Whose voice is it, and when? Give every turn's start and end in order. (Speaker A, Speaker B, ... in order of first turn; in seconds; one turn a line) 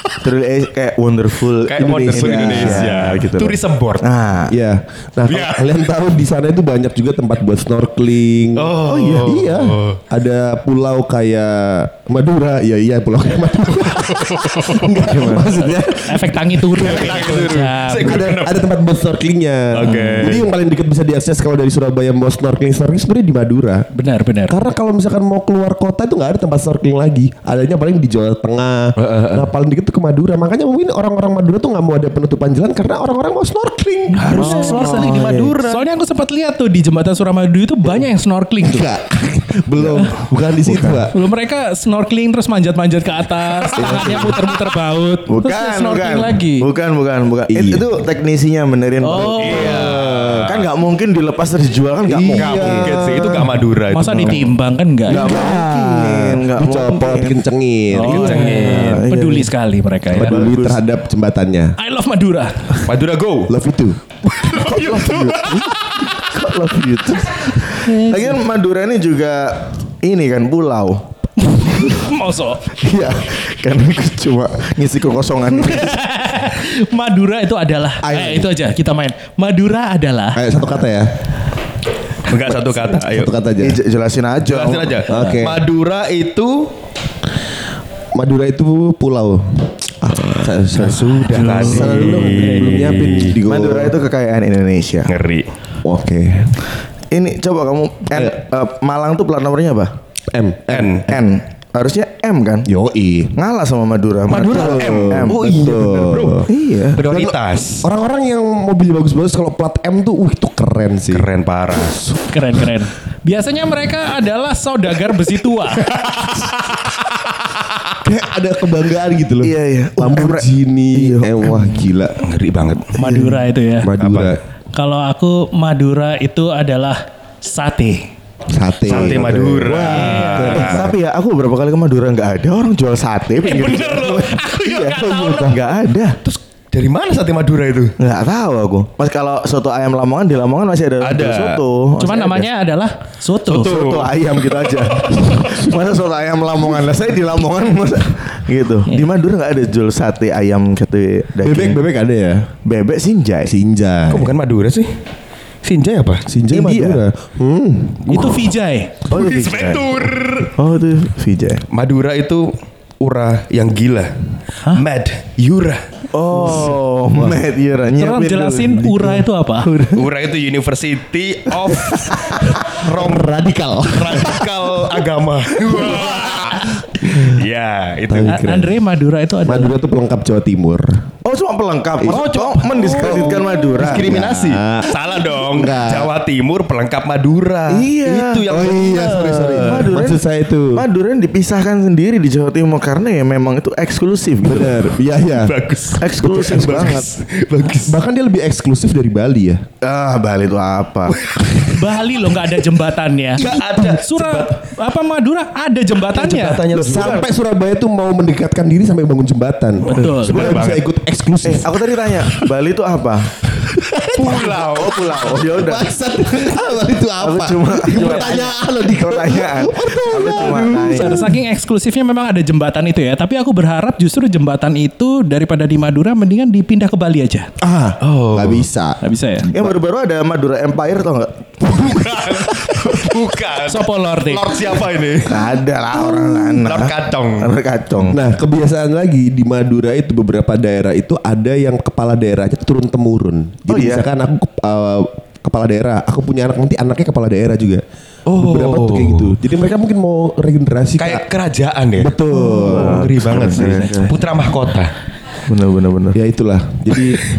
Speaker A: 0.2-4.5
Speaker B: 1.7-4.1
Speaker C: 1.8-3.0
Speaker C: 4.5-17.4
Speaker B: 5.3-5.8
Speaker B: 8.6-10.0
Speaker A: 8.9-9.2
Speaker B: 13.8-15.0
Speaker A: 15.1-15.8
Speaker D: 16.0-18.2
Speaker B: 16.8-18.7
Speaker C: 18.0-23.9
Speaker B: 19.7-20.5
Speaker A: 19.9-20.2
Speaker D: 23.9-24.6
Speaker C: 24.5-34.9
Speaker B: 29.0-29.4
Speaker D: 34.1-38.9
Speaker B: 34.2-35.8
Speaker A: 34.4-35.6
Speaker C: 38.6-41.1
Speaker D: 40.8-46.7
Speaker C: 43.8-44.4
Speaker A: 45.3-53.0
Speaker C: 47.5-47.9
Speaker D: 49.0-49.9
Speaker B: 49.2-50.6
Speaker C: 52.1-53.6
Speaker B: 52.2-54.5
Speaker D: 53.9-55.2
Speaker A: 55.1-57.4
Speaker C: 55.1-58.3
Speaker D: 57.9-60.5
Speaker A: 58.1-59.5
Speaker B: 58.1-59.0
Speaker C: 60.1-61.8
Speaker A: 60.1-60.8
Speaker D: 61.8-62.8
Speaker B: 62.9-63.5
Speaker C: 63.5-64.0
Speaker A: 64.4-71.1
Speaker B: 64.5-65.8
Speaker D: 67.8-68.4
Speaker D: 71.5-72.6
Speaker A: 72.8-76.0
Speaker D: 75.6-80.4
Speaker C: 78.0-78.5
Speaker C: 80.4-81.1
Speaker B: 82.2-83.3
Speaker C: 82.3-83.8
Speaker A: 83.6-85.1
Speaker B: 84.4-86.7
Speaker C: 85.0-85.6
Speaker C: 88.2-94.0
Speaker B: 90.8-93.4
Speaker A: 91.5-92.4
Speaker A: 93.5-95.1
Speaker B: 95.1-95.5
Speaker C: 95.8-96.6
Speaker A: 97.1-99.9
Speaker C: 100.3-101.0
Speaker B: 100.7-101.1
Speaker A: 101.0-102.7
Speaker C: 102.7-103.3
Speaker A: 103.3-105.4
Speaker B: 104.3-107.8
Speaker C: 104.3-106.5
Speaker A: 106.5-107.0
Speaker C: 107.0-112.2
Speaker B: 111.1-112.0
Speaker D: 112.3-115.9
Speaker B: 115.9-117.0
Speaker C: 118.0-122.2
Speaker A: 119.4-121.9
Speaker B: 122.2-123.0
Speaker A: 123.0-123.4
Speaker D: 123.0-123.9
Speaker C: 123.8-124.4
Speaker B: 124.0-124.4
Speaker D: 124.7-128.1
Speaker C: 128.5-130.9
Speaker B: 128.9-130.9
Speaker A: 129.0-129.3
Speaker D: 129.9-130.7
Speaker A: 130.7-136.2
Speaker D: 133.4-135.4
Speaker B: 133.6-134.1
Speaker C: 134.9-135.6
Speaker B: 136.2-137.9
Speaker A: 138.0-142.5
Speaker B: 141.0-141.6
Speaker D: 142.0-143.9
Speaker B: 143.5-144.1
Speaker A: 143.5-151.8
Speaker C: 151.4-152.5
Speaker A: 152.7-153.5
Speaker C: 153.5-154.3
Speaker B: 154.1-154.9
Speaker B: 155.6-156.2
Speaker C: 156.3-158.4
Speaker A: 156.5-157.0
Speaker D: 158.1-158.9
Speaker A: 159.1-160.0
Speaker B: 159.1-160.5
Speaker A: 160.5-161.7
Speaker B: 161.7-164.1
Speaker B: 164.7-165.8
Speaker A: 166.1-170.0
Speaker C: 166.5-167.4
Speaker D: 168.0-169.7
Speaker B: 169.9-173.4
Speaker A: 171.8-172.2
Speaker C: 172.9-174.7
Speaker B: 173.9-178.4
Speaker C: 178.1-178.8
Speaker D: 178.3-179.8
Speaker C: 179.4-180.9
Speaker A: 181.2-184.1
Speaker B: 182.1-190.0
Speaker C: 183.0-186.1
Speaker A: 187.7-188.5
Speaker C: 188.5-190.8
Speaker A: 189.4-194.9
Speaker C: 194.4-195.6
Speaker B: 195.0-198.0
Speaker A: 196.0-197.1
Speaker C: 196.2-196.9
Speaker C: 197.8-199.6
Speaker A: 199.8-201.2
Speaker D: 201.6-206.6
Speaker B: 203.4-204.5
Speaker C: 203.4-204.0
Speaker B: 206.0-207.3
Speaker C: 206.7-211.7
Speaker A: 206.9-207.3
Speaker D: 209.8-210.6
Speaker A: 210.0-210.3
Speaker B: 210.3-210.8
Speaker A: 211.4-213.3
Speaker C: 213.8-214.8
Speaker B: 214.0-215.0
Speaker A: 214.3-216.6
Speaker C: 215.6-221.4
Speaker A: 217.2-221.2
Speaker D: 220.7-227.5
Speaker C: 227.6-229.0
Speaker B: 228.0-228.7
Speaker D: 229.0-229.5
Speaker A: 229.5-231.4
Speaker B: 231.6-237.5
Speaker D: 233.7-234.6
Speaker A: 235.3-238.2
Speaker C: 238.1-247.8
Speaker A: 243.7-244.1
Speaker B: 248.3-249.4
Speaker C: 248.4-251.2
Speaker B: 251.0-254.9
Speaker C: 252.0-253.1
Speaker A: 252.3-254.2
Speaker A: 255.4-256.2
Speaker C: 256.1-257.2